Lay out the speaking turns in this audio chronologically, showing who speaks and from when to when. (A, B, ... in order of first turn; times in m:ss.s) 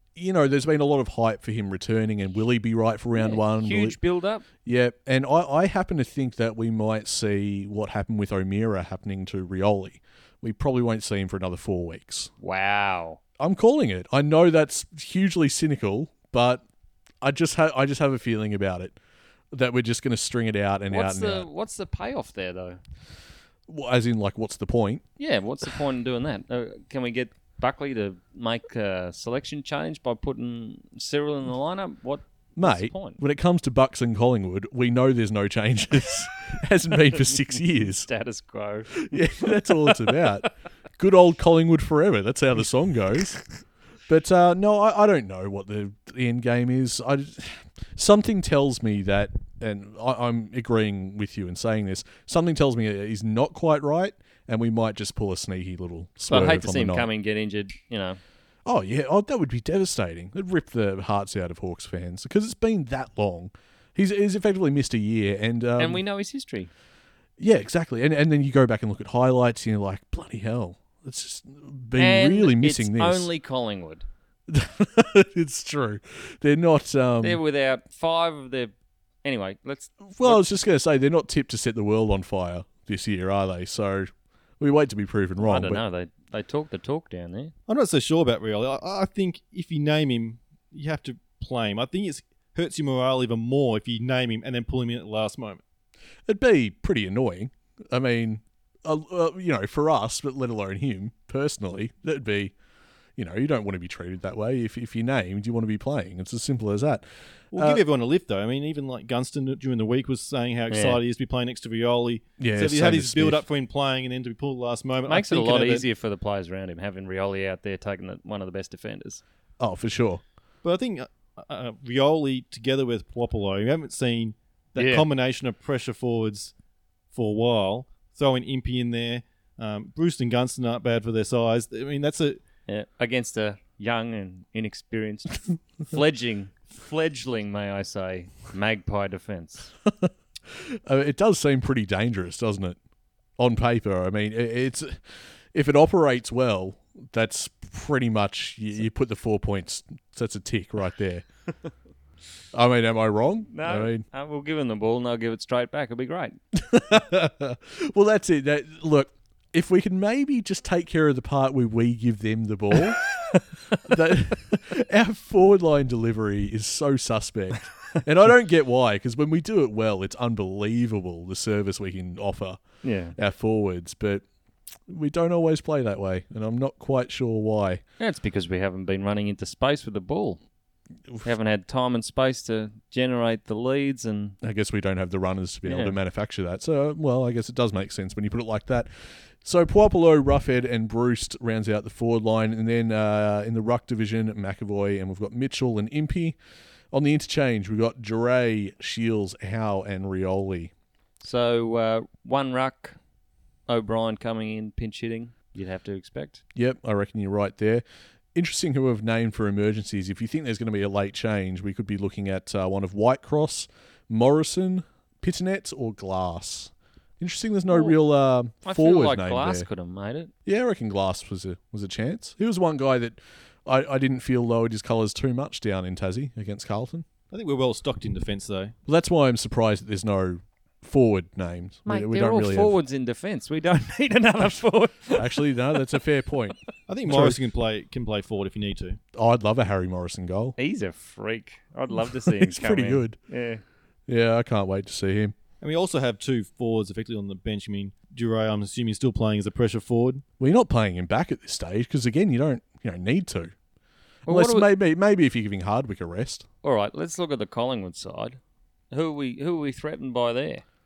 0:00.2-0:04.0 A
0:03.2-0:04.4 B
0:04.6-0:12.3 A
0:12.4-0:13.2 B
0:13.4-0:16.6 A
0:17.2-0:19.0 A
0:19.5-0:21.5 A
0:20.9-0:22.8 B
0:23.7-0:25.0 A
0:25.2-0:33.2 B
0:32.6-0:38.1 A
0:38.0-0:40.2 B
0:39.0-0:40.5 A
0:41.0-0:43.4 A
0:44.1-0:57.1 A
0:56.3-0:58.2 B
0:58.6-1:06.0 A
1:05.8-1:06.7 B
1:07.4-1:13.3 A
1:12.0-1:14.0 B
1:14.5-1:17.4 A
1:17.2-1:18.7 B
1:19.2-1:20.4 B
1:20.1-1:25.8 A
1:25.4-1:27.5 B
1:27.7-1:35.6 C
1:36.3-1:42.5 A
1:43.2-1:47.8 A
1:47.5-1:55.8 C
1:50.7-1:51.0 B
1:52.4-1:53.4 A
1:55.1-1:59.2 B
1:59.6-2:00.2 A
2:00.6-2:06.5 C
2:04.8-2:05.1 B
2:07.1-2:12.4 C
2:12.7-2:19.7 B
2:19.9-2:22.8 A
2:23.4-2:25.0 A
2:25.5-2:31.2 A
2:32.5-2:34.0 A
2:33.5-2:36.4 B
2:36.6-2:43.2 A
2:43.8-2:52.6 A
2:52.8-2:53.2 B
2:53.2-2:54.2 A
2:54.9-2:57.8 A
2:58.0-3:00.4 B
3:01.2-3:04.4 B
3:04.4-3:08.9 A
3:05.6-3:06.0 B
3:09.4-3:16.4 A
3:16.9-3:20.7 A
3:21.2-3:23.0 B
3:23.7-3:26.4 B
3:26.6-3:27.8 A
3:28.4-3:39.7 A
3:37.7-3:38.0 B
3:38.6-3:40.3 B
3:40.4-3:47.1 A
3:47.3-3:48.7 C
3:48.9-3:52.8 A
3:51.9-3:55.5 B
3:55.2-3:56.6 A
3:56.9-3:59.0 C
3:57.1-3:57.4 A
3:59.2-4:00.6 A
4:00.6-4:03.6 B
4:02.0-4:03.2 A
4:04.1-4:05.3 A
4:05.6-4:10.2 C
4:10.4-4:13.5 A
4:14.3-4:14.7 B
4:14.3-4:16.5 A
4:16.6-4:18.4 B
4:18.9-4:20.6 B